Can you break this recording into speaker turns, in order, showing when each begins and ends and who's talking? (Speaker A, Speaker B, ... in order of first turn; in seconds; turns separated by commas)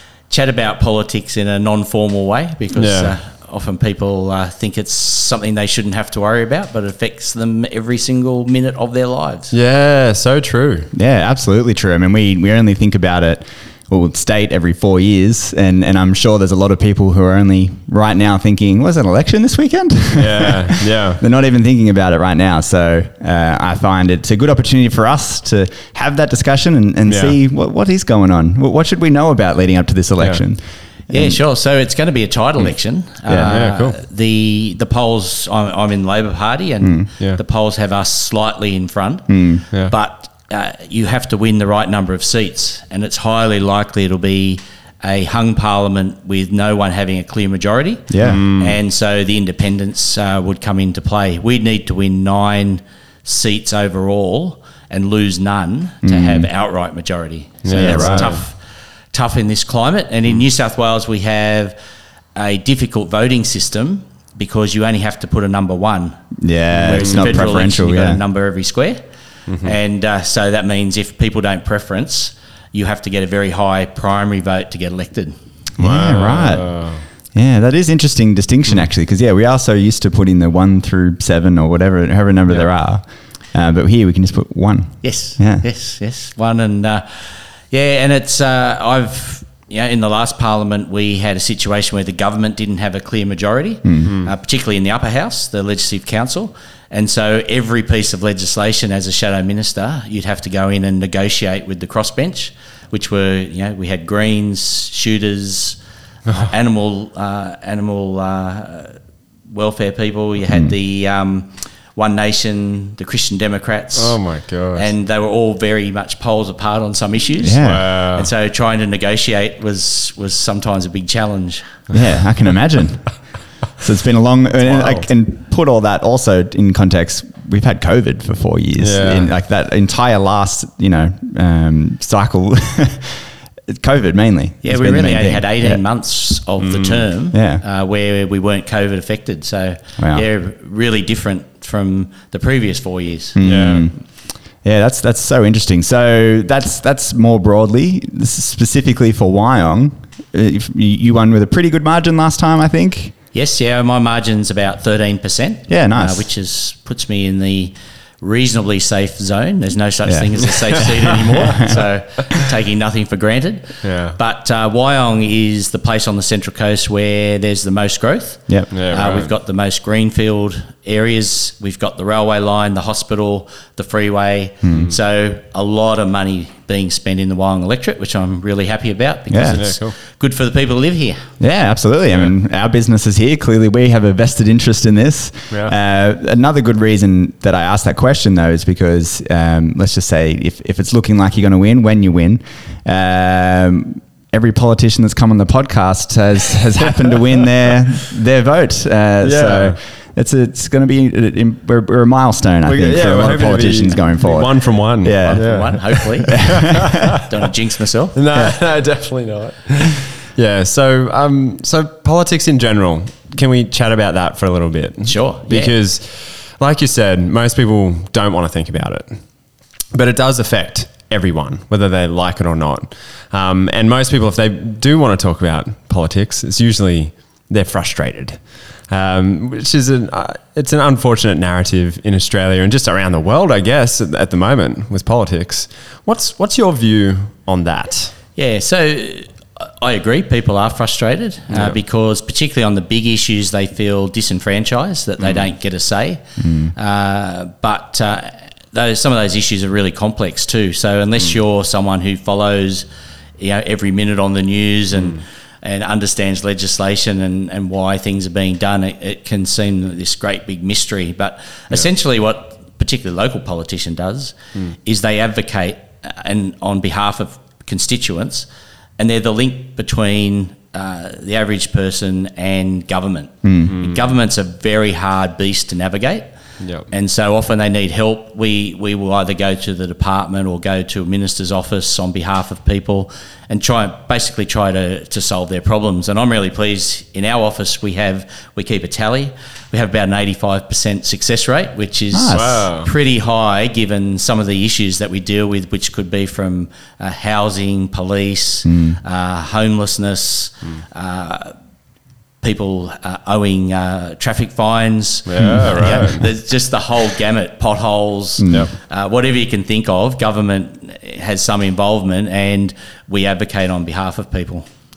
Speaker A: 0.3-9.5, Speaker B: 2.7-3.1, Speaker B: 9.5-10.9, Speaker C: 10.9-31.4, Speaker B: 20.1-21.2, Speaker B: 27.1-27.4, Speaker A: 31.1-58.5, Speaker C: 33.3-33.5, Speaker B: 33.4-34.0, Speaker C: 36.8-37.1, Speaker C: 39.3-39.6, Speaker C: 48.1-48.4, Speaker B: 48.2-48.8, Speaker C: 56.0-56.5, Speaker B: 57.6-58.4, Speaker C: 57.7-58.4, Speaker A: 59.1-61.7, Speaker A: 62.3-66.2, Speaker C: 66.4-68.2, Speaker B: 66.7-67.3, Speaker A: 66.8-69.0, Speaker B: 69.5-69.8, Speaker A: 69.6-75.3, Speaker B: 75.8-77.0, Speaker C: 75.8-85.7, Speaker A: 85.0-87.0, Speaker A: 87.7-105.8, Speaker C: 93.8-94.1, Speaker B: 94.0-94.3, Speaker A: 106.3-109.0, Speaker A: 109.5-114.2, Speaker B: 113.9-114.9, Speaker A: 114.7-121.7, Speaker C: 117.4-117.9, Speaker B: 117.6-118.3, Speaker C: 121.9-123.1, Speaker C: 123.8-135.8, Speaker B: 124.6-125.0, Speaker B: 128.8-129.3, Speaker A: 134.6-143.4, Speaker B: 136.6-137.1, Speaker C: 137.3-137.6, Speaker C: 140.0-140.2, Speaker C: 143.3-143.9, Speaker B: 143.4-143.9, Speaker C: 144.6-153.1, Speaker A: 153.3-181.3, Speaker C: 155.7-156.3, Speaker C: 160.1-161.8, Speaker B: 163.8-164.2, Speaker B: 168.7-169.3, Speaker C: 174.6-174.9, Speaker C: 179.3-179.6, Speaker B: 179.5-179.9, Speaker C: 181.4-207.2, Speaker B: 199.2-199.8, Speaker B: 202.6-207.2, Speaker A: 205.2-208.2, Speaker B: 208.1-219.2, Speaker A: 215.0-215.8, Speaker B: 219.9-238.1, Speaker A: 238.3-246.2, Speaker B: 241.5-241.8, Speaker C: 246.4-246.7, Speaker A: 246.7-252.8, Speaker A: 253.4-268.4, Speaker A: 269.0-276.3, Speaker C: 273.4-273.7, Speaker B: 273.7-274.0, Speaker B: 276.6-276.9, Speaker A: 276.9-301.5, Speaker C: 292.1-292.6, Speaker B: 292.3-292.9, Speaker C: 298.6-299.0, Speaker A: 302.4-314.6, Speaker B: 305.2-306.2, Speaker C: 305.4-306.1, Speaker C: 308.4-308.7, Speaker B: 308.5-308.7